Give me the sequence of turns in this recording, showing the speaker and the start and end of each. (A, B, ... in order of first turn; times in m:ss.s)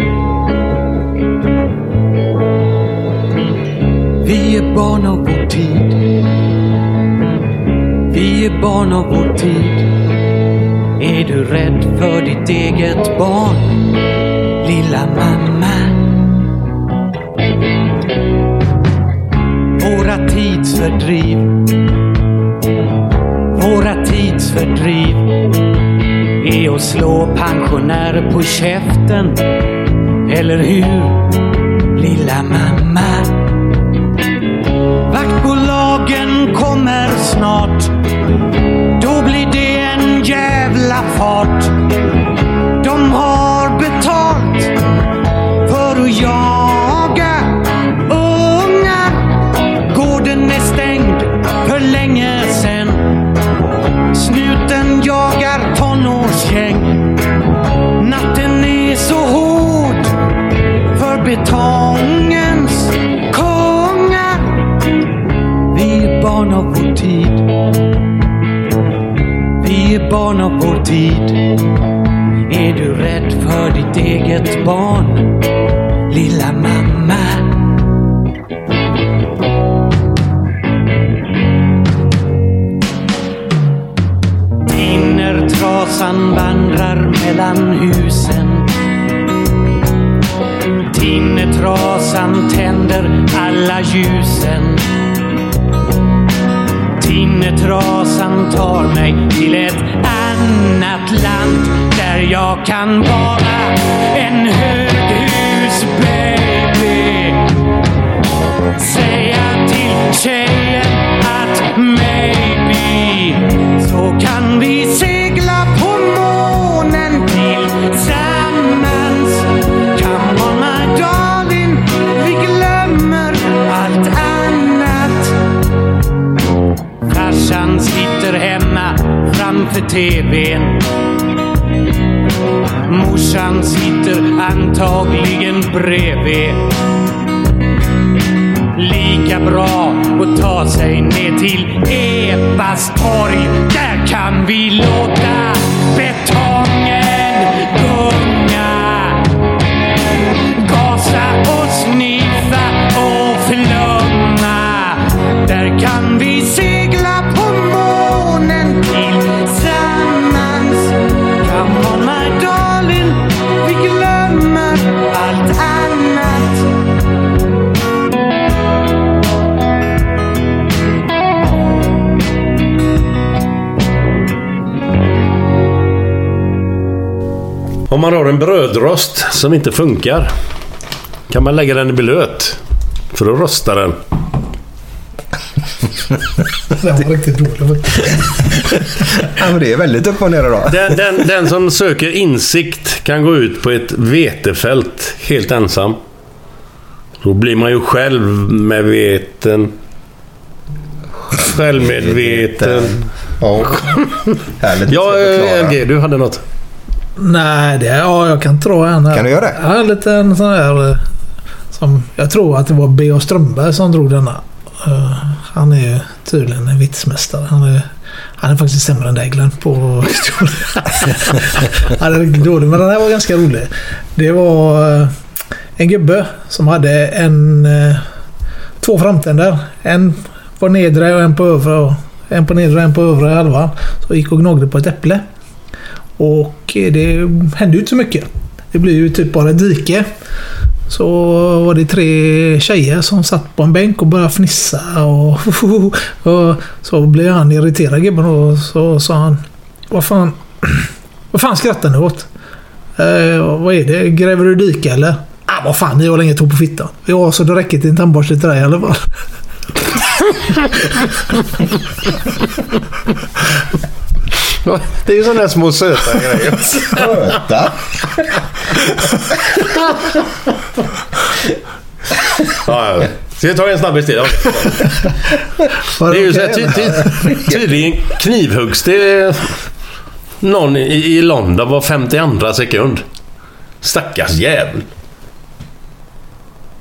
0:04.2-0:06.2 A
0:08.1-0:10.1 A
0:11.0-0:14.0 A
0:14.6-0:16.3 A
0:19.8-0:21.8 A
0:23.5-0:25.6 A
0:26.4-0:29.7 A
0:30.2-0:33.7 A
0:35.1-0:38.0 A
0:38.9-0:41.9 A
0:42.7-0:44.8 A
0:45.6-0:53.3 A
0:54.1-0:57.3 A
0:58.0-1:00.1 A
1:00.9-1:04.8 A
1:05.7-1:07.5 A
1:09.6-1:11.7 A
1:12.4-1:15.5 A
1:16.1-1:17.8 A
1:24.6-1:28.8 A
1:30.9-1:35.1 A
1:37.0-1:47.6 A
1:48.7-2:05.4 A
2:07.0-2:11.0 A
2:12.9-2:16.8 A
2:18.7-2:29.5 A
2:30.6-2:46.6 A
2:57.9-3:00.3 B
3:01.3-3:02.6 B
3:03.1-3:04.0 B
3:06.7-3:08.4 C
3:09.2-3:11.0 D
3:10.7-3:16.0 B
3:17.2-3:19.7 B
3:21.3-3:23.0 B
3:21.8-3:25.8 D
3:24.9-3:26.4 B
3:27.2-3:31.0 C
3:29.1-3:29.6 D
3:31.7-3:45.1 C
3:45.8-3:48.0 C
3:48.8-3:55.2 C
3:56.2-4:00.1 C
4:00.9-4:12.3 C
4:13.0-4:19.1 C
4:24.6-4:27.1 B
4:26.8-4:27.8 D
4:32.6-4:35.0 B
4:36.0-4:37.3 C
4:36.0-4:39.6 B
4:40.4-4:43.0 B
4:43.8-4:44.8 B